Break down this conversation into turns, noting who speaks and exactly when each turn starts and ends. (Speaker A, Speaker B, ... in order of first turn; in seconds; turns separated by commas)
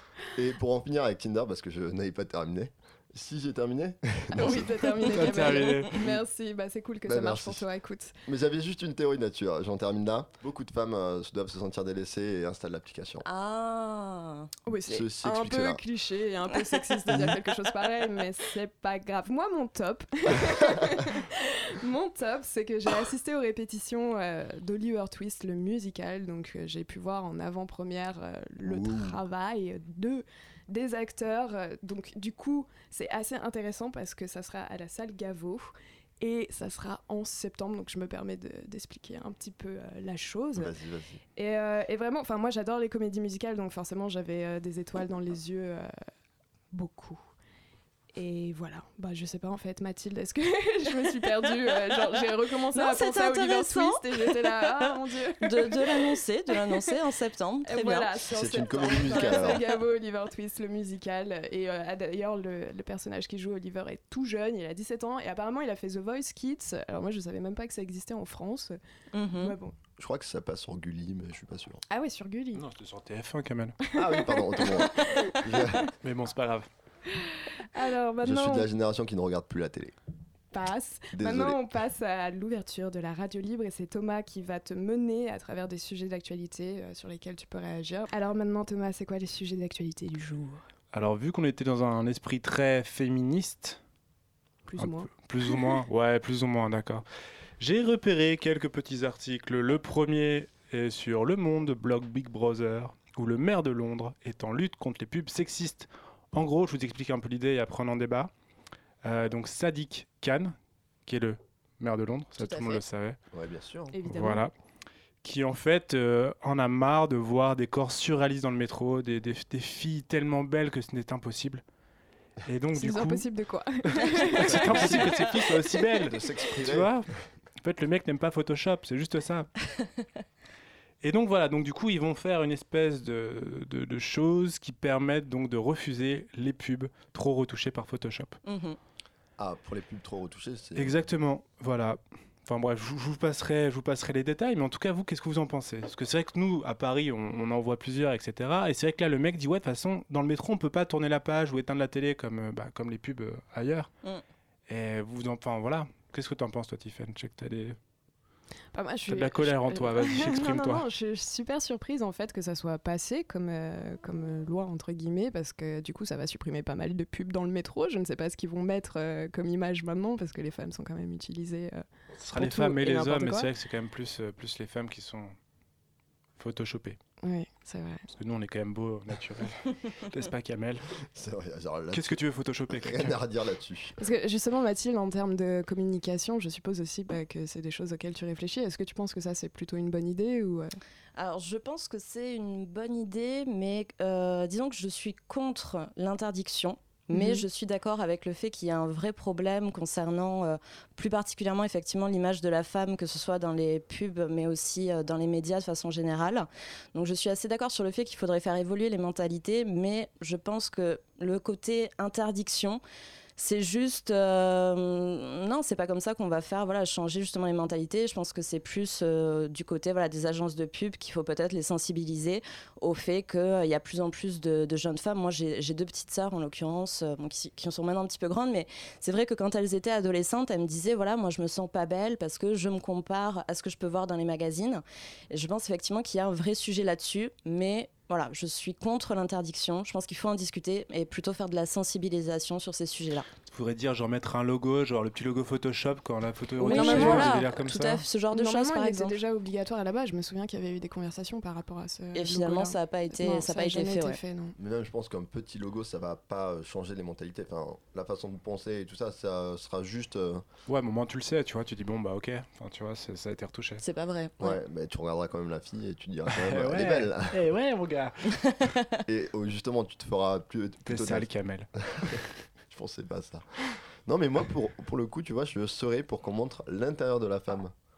Speaker A: 0.3-4.9, Speaker B: 4.3-8.1, Speaker C: 5.1-6.1, Speaker D: 5.2-5.8, Speaker A: 7.0-7.6, Speaker A: 8.2-13.2, Speaker D: 13.2-14.5, Speaker B: 14.7-40.7, Speaker A: 14.9-15.8, Speaker A: 20.5-20.9, Speaker A: 28.6-29.2, Speaker A: 40.5-41.2, Speaker B: 41.4-45.9, Speaker B: 46.7-47.2, Speaker B: 48.1-56.8, Speaker D: 52.7-54.9, Speaker D: 55.4-58.2, Speaker B: 57.6-68.8, Speaker A: 58.3-59.6, Speaker D: 59.0-59.5, Speaker D: 69.1-69.5, Speaker B: 69.3-69.8, Speaker A: 70.0-71.8, Speaker B: 71.9-72.6, Speaker C: 72.5-73.8, Speaker A: 73.9-75.9, Speaker B: 74.0-75.8, Speaker C: 76.0-76.7, Speaker B: 77.1-78.7, Speaker A: 78.2-79.9, Speaker B: 80.5-90.6, Speaker A: 81.1-81.6, Speaker C: 90.9-93.8, Speaker B: 94.7-95.7, Speaker C: 94.8-97.0, Speaker C: 97.6-108.3, Speaker C: 109.0-113.2, Speaker D: 112.4-112.8, Speaker A: 113.3-113.9, Speaker B: 113.9-114.5, Speaker C: 114.0-114.5, Speaker C: 115.2-121.6, Speaker C: 122.4-123.2, Speaker B: 122.7-125.0, Speaker C: 124.2-129.5, Speaker A: 124.3-125.3, Speaker A: 126.1-127.0, Speaker C: 131.0-138.4, Speaker D: 138.4-138.8, Speaker A: 139.4-141.1, Speaker C: 140.8-153.9, Speaker C: 154.7-157.8, Speaker B: 158.7-173.5, Speaker C: 159.1-160.8, Speaker C: 172.2-175.3, Speaker C: 176.4-177.0, Speaker B: 177.2-178.0, Speaker C: 178.1-180.9, Speaker A: 181.1-184.0, Speaker C: 181.9-183.1, Speaker B: 184.0-190.8, Speaker D: 191.2-212.8, Speaker B: 197.1-197.4, Speaker D: 213.4-243.3, Speaker C: 243.5-248.0, Speaker D: 246.6-249.2, Speaker B: 246.6-247.4, Speaker B: 248.3-254.5, Speaker D: 252.1-254.2, Speaker A: 254.6-260.4, Speaker C: 260.7-263.8, Speaker D: 263.8-264.6, Speaker A: 264.4-267.4, Speaker C: 266.3-268.1, Speaker D: 268.5-268.8, Speaker A: 269.1-277.7, Speaker C: 270.9-272.2